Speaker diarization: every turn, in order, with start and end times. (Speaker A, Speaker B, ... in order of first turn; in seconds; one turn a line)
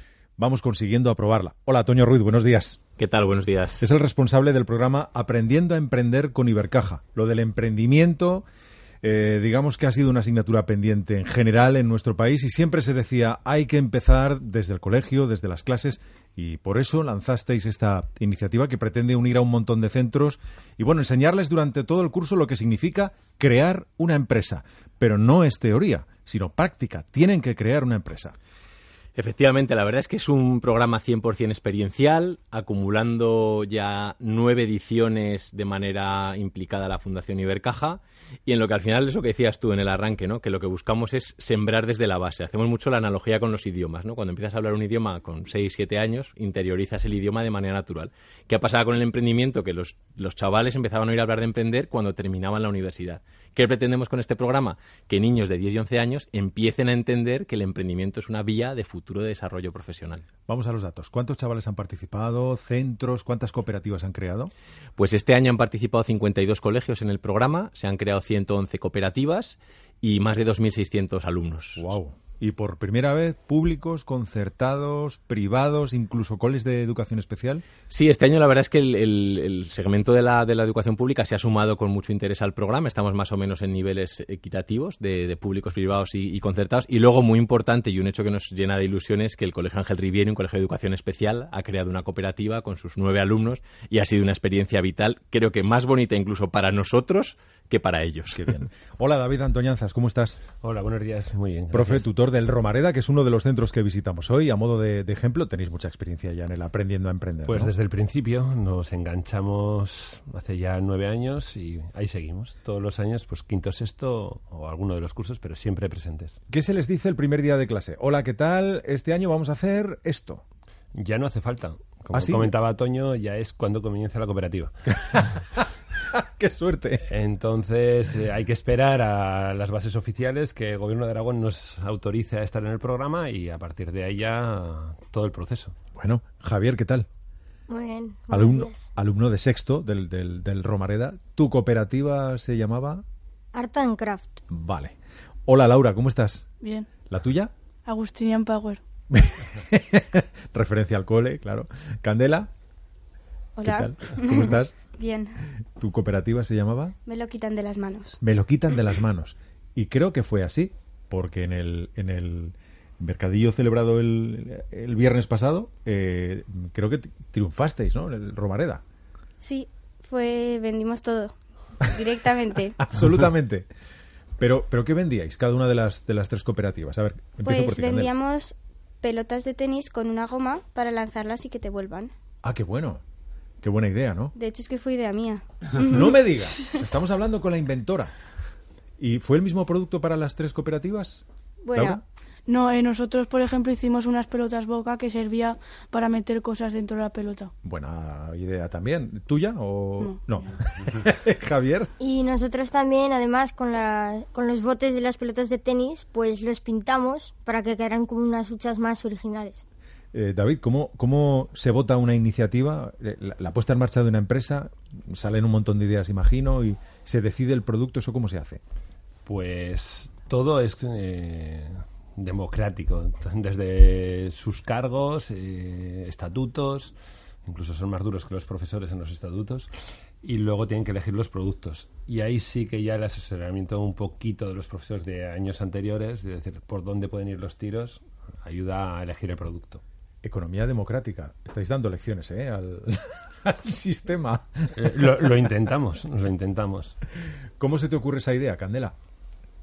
Speaker A: 0.4-2.8
Speaker B: 3.0-3.8
Speaker A: 3.8-8.4
Speaker A: 9.0-28.4
Speaker B: 29.2-60.3
Speaker A: 60.5-64.5
Speaker B: 65.0-71.9
Speaker A: 71.8-77.7
Speaker B: 77.9-98.5
Speaker A: 98.3-100.4
Speaker C: 100.6-102.1
Speaker A: 101.7-107.7
Speaker C: 107.5-116.4
Speaker A: 116.5-120.4
Speaker C: 120.9-125.3
Speaker A: 122.1-122.5
Speaker A: 126.1-127.0
Speaker C: 127.1-135.8
Speaker A: 136.0-137.1
Speaker D: 137.7-138.9
Speaker A: 138.3-143.0
Speaker D: 143.5-144.4
Speaker A: 144.5-144.9
Speaker A: 145.5-146.5
Speaker E: 146.6-146.9
Speaker A: 147.1-147.5
Speaker E: 147.9-148.8
Speaker A: 149.1-152.5
Speaker F: 153.6-155.4
Speaker A: 153.6-154.8
Speaker A: 155.8-156.9
Speaker F: 157.1-158.2
Speaker A: 158.2-168.8
Speaker F: 169.4-172.8
Speaker A: 172.8-173.7
Speaker A: 174.4-178.1
Speaker F: 177.4-182.1
Speaker A: 182.4-183.0
Speaker A: 183.6-184.3
Speaker F: 184.3-186.2
Speaker A: 185.8-188.1
Speaker A: 189.0-192.0
Speaker F: 191.6-192.0
Speaker E: 192.5-197.5
Speaker A: 197.6-201.9
Speaker E: 200.0-200.5
Speaker D: 202.0-209.6
Speaker A: 210.1-218.6
Speaker C: 219.3-229.7
Speaker C: 230.2-239.8
Speaker A: 240.2-244.8
Speaker C: 244.8-247.0
Speaker A: 247.6-248.9